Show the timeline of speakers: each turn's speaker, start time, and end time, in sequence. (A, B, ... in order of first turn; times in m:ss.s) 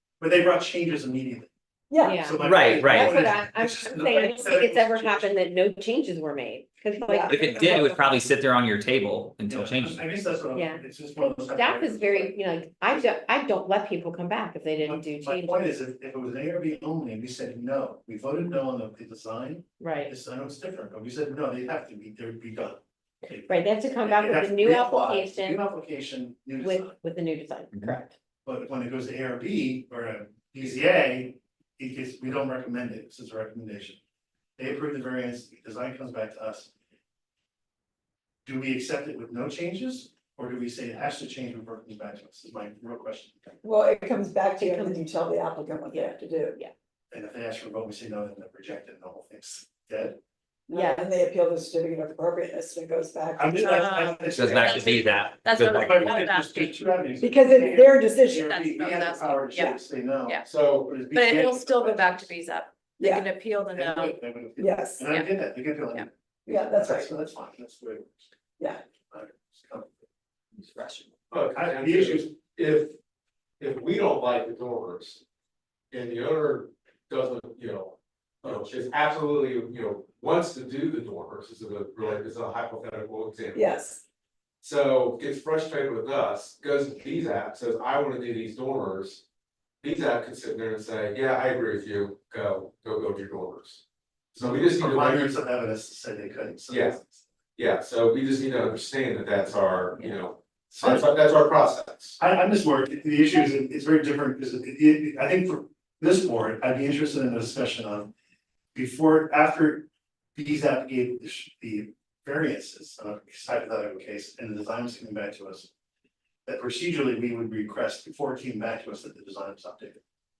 0:00.2-0:01.5 A
0:01.9-0:02.3 B
0:02.0-0:08.1 C
0:02.2-0:05.4 A
0:02.4-0:03.2 D
0:07.0-0:07.5 B
0:07.3-0:10.0 D
0:09.5-0:12.4 A
0:10.6-0:10.8 C
0:11.5-0:15.8 C
0:14.8-0:27.0 A
0:19.8-0:20.1 C
0:23.5-0:25.6 C
0:26.6-0:28.2 C
0:28.4-0:34.0 A
0:34.6-0:36.7 A
0:38.4-0:43.6 A
0:43.6-0:46.6 B
0:44.6-0:45.0 C
0:45.9-0:46.7 C
0:47.1-0:50.2 A
0:50.7-0:54.2 B
0:50.7-0:51.1 C
0:53.4-1:02.3 A
0:53.7-0:56.8 E
0:54.3-0:56.2 D
0:57.2-0:58.6 B
0:58.3-1:00.5 E
1:00.4-1:01.0 F
1:01.1-1:04.2 E
1:03.0-1:03.3 B
1:03.7-1:08.2 A
1:04.6-1:05.1 B
1:05.1-1:05.4 E
1:06.5-1:07.2 B
1:09.1-1:10.0 A
1:11.3-1:13.0 F
1:11.6-1:12.3 A
1:13.6-1:15.2 F
1:15.9-1:23.8 F
1:23.5-1:24.0 B
1:24.6-1:29.2 F
1:29.8-1:33.8 F
1:34.3-1:37.2 A
1:34.4-1:35.4 F
1:36.7-1:37.0 F
1:37.6-1:42.2 F
1:40.8-1:41.1 A
1:42.2-1:48.1 A
1:48.7-1:55.7 A
1:56.5-2:00.0 A